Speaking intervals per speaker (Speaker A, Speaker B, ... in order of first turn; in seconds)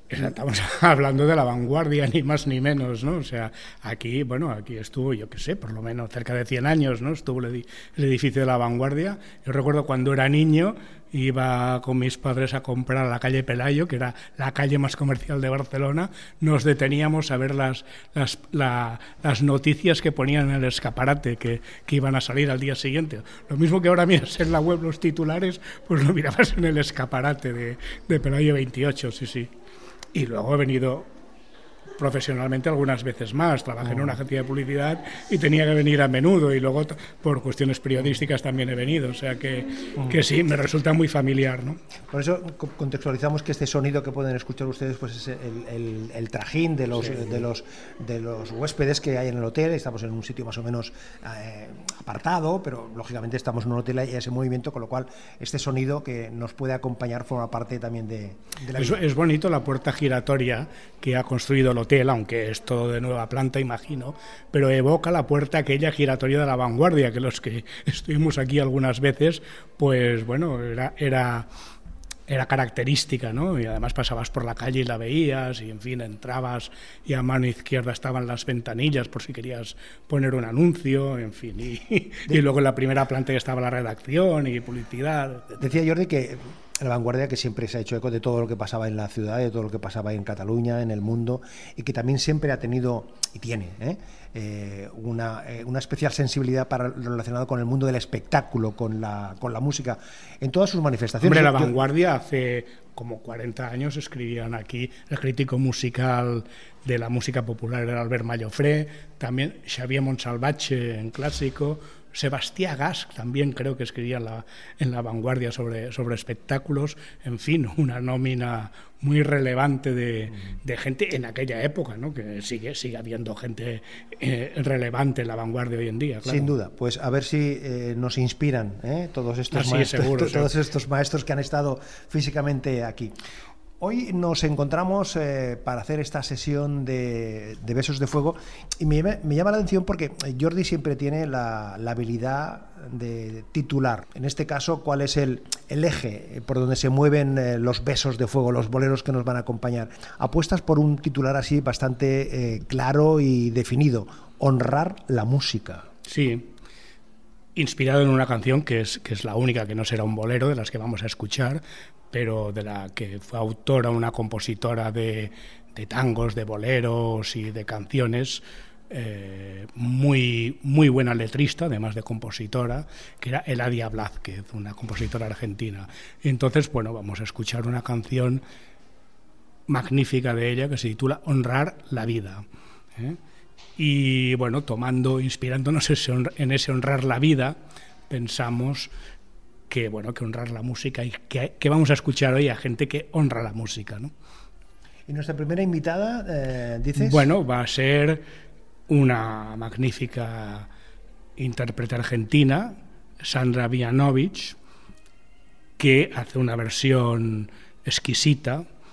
Speaker A: 0.1-29.5, 30.1-31.1, 32.0-41.8, 58.8-71.5, 72.3-85.6, 101.2-126.5, 129.5-130.5, 156.1-156.5, 157.6-178.4, 179.7-182.4, 183.8-187.6, 188.1-188.9, 189.7-194.1, 197.0-198.2, 198.9-200.7, 201.4-204.6, 205.8-208.7
Speaker B: 33.8-34.2, 40.0-40.2, 42.1-59.0, 85.6-101.8, 126.2-133.1, 133.8-155.9, 195.1-197.3